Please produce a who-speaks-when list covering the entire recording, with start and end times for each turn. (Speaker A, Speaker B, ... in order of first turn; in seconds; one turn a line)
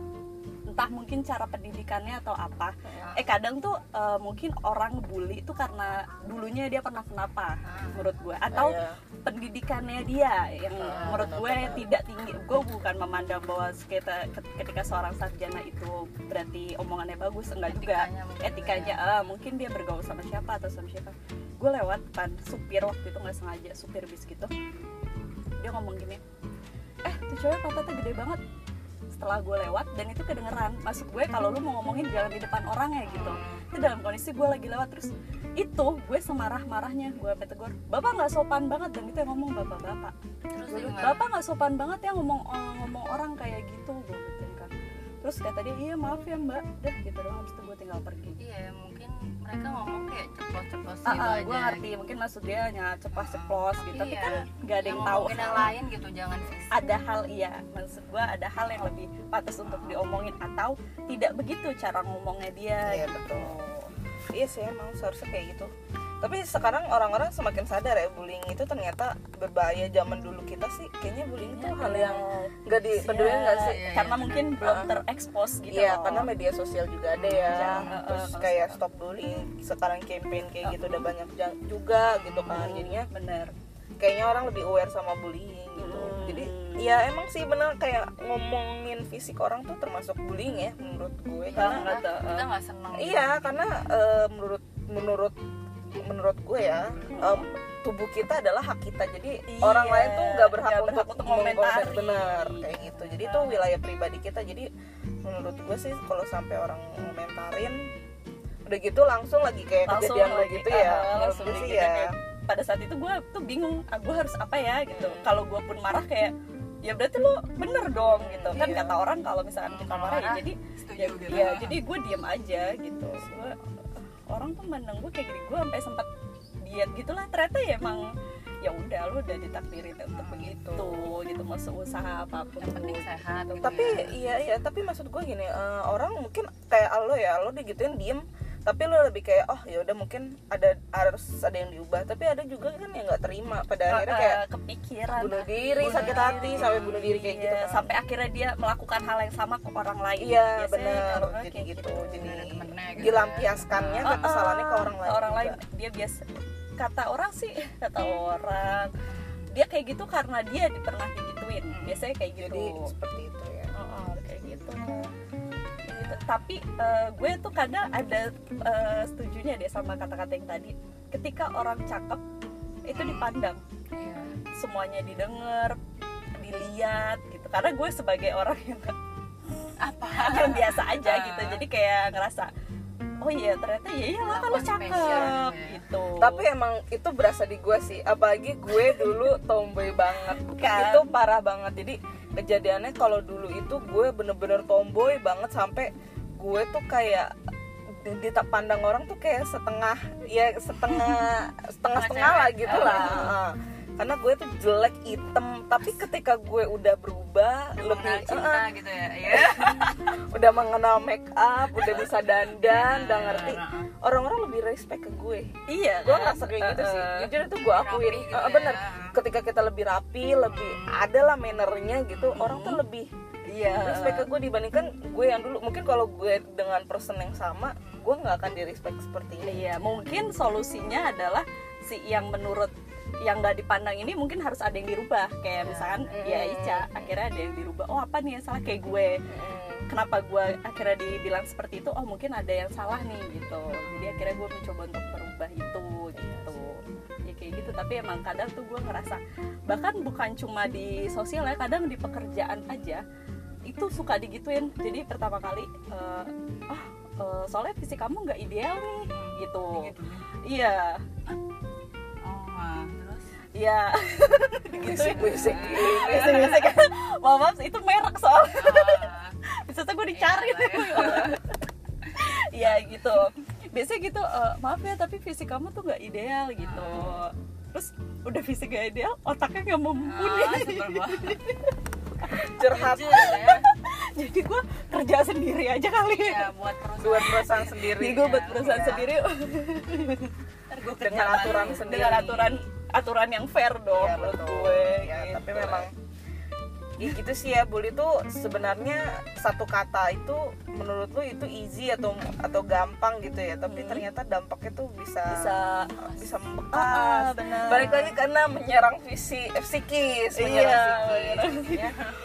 Speaker A: 0.7-24.5
Speaker B: 2.9-3.2
Speaker B: 7.6-8.1
Speaker C: 8.5-9.0
Speaker C: 10.8-11.9
Speaker B: 10.8-11.3
Speaker B: 17.6-19.0
Speaker A: 25.6-26.2
Speaker A: 27.0-28.4
Speaker A: 29.1-40.1
Speaker B: 33.0-33.6
Speaker B: 40.5-41.2
Speaker A: 40.7-44.7
Speaker A: 45.2-48.4
Speaker B: 48.4-52.0
Speaker A: 51.0-55.7
Speaker B: 53.1-56.7
Speaker A: 56.7-63.9
Speaker B: 59.6-60.0
Speaker C: 62.8-63.5
Speaker C: 64.3-73.8
Speaker A: 71.5-72.5
Speaker A: 73.0-76.3
Speaker B: 73.1-74.6
Speaker C: 74.6-75.0
Speaker C: 75.7-83.1
Speaker A: 77.2-78.8
Speaker B: 77.2-78.0
Speaker A: 80.6-81.1
Speaker B: 82.2-82.5
Speaker A: 82.5-83.5
Speaker C: 84.0-91.9
Speaker A: 85.8-86.9
Speaker B: 91.5-93.6
Speaker A: 91.5-92.5
Speaker C: 92.9-95.3
Speaker C: 96.0-104.7
Speaker A: 97.1-97.5
Speaker A: 99.5-103.7
Speaker C: 105.2-107.8
Speaker C: 108.7-112.1
Speaker A: 109.9-116.3
Speaker C: 114.9-115.3
Speaker A: 116.8-123.6
Speaker C: 118.1-119.0
Speaker B: 119.7-121.8
Speaker A: 124.3-126.1
Speaker A: 126.6-128.1
Speaker A: 128.6-133.0
Speaker B: 130.1-130.5
Speaker C: 130.3-131.2
Speaker B: 132.6-134.1
Speaker A: 133.6-133.9
Speaker C: 133.6-144.4
Speaker A: 143.9-152.4
Speaker C: 145.2-147.9
Speaker B: 145.8-146.9
Speaker C: 150.2-155.6
Speaker B: 152.2-154.3
Speaker A: 154.0-156.2
Speaker A: 156.8-158.9
Speaker B: 159.1-159.5
Speaker A: 159.5-162.9
Speaker B: 161.7-162.1
Speaker C: 162.4-163.7
Speaker A: 163.7-165.1
Speaker A: 165.8-172.2
Speaker A: 172.8-173.6
Speaker B: 172.9-173.3
Speaker B: 173.9-174.3
Speaker A: 174.6-175.8
Speaker A: 176.4-178.9
Speaker B: 179.8-181.6
Speaker A: 180.1-182.5
Speaker A: 183.2-186.4
Speaker B: 184.2-185.8
Speaker C: 184.9-185.3
Speaker C: 186.2-197.3
Speaker A: 190.4-191.1
Speaker C: 197.9-208.7
Speaker B: 201.9-203.3
Speaker A: 202.6-203.3
Speaker B: 207.8-210.1
Speaker C: 209.3-215.5
Speaker B: 212.6-213.9
Speaker A: 215.7-217.3
Speaker C: 216.0-223.1
Speaker B: 217.6-219.2
Speaker B: 220.5-221.0
Speaker B: 222.1-222.4
Speaker A: 222.3-222.8
Speaker A: 223.5-224.3
Speaker C: 223.8-229.7
Speaker B: 227.8-228.1
Speaker A: 229.4-232.7
Speaker A: 233.2-239.2
Speaker B: 235.5-236.2
Speaker C: 236.1-237.1
Speaker C: 239.3-239.9
Speaker A: 239.9-253.0
Speaker B: 243.7-244.4
Speaker C: 246.2-246.7
Speaker A: 253.7-259.9
Speaker B: 259.1-260.2
Speaker A: 260.4-261.0
Speaker B: 262.2-263.3
Speaker A: 263.5-269.1
Speaker C: 264.8-266.6
Speaker B: 264.9-266.8
Speaker B: 268.5-269.4
Speaker A: 269.6-271.5
Speaker B: 270.1-271.4
Speaker A: 272.1-281.7
Speaker B: 276.6-277.2
Speaker B: 280.0-281.5
Speaker C: 282.5-283.5
Speaker B: 282.6-283.6
Speaker A: 283.1-286.5
Speaker B: 286.1-289.1
Speaker C: 287.0-289.1
Speaker A: 287.8-290.3
Speaker B: 290.7-292.2
Speaker C: 291.0-292.6
Speaker A: 291.1-295.9
Speaker C: 293.9-295.9
Speaker C: 297.0-312.0
Speaker A: 303.7-304.0
Speaker A: 305.3-305.9
Speaker A: 306.7-308.2
Speaker A: 310.4-311.9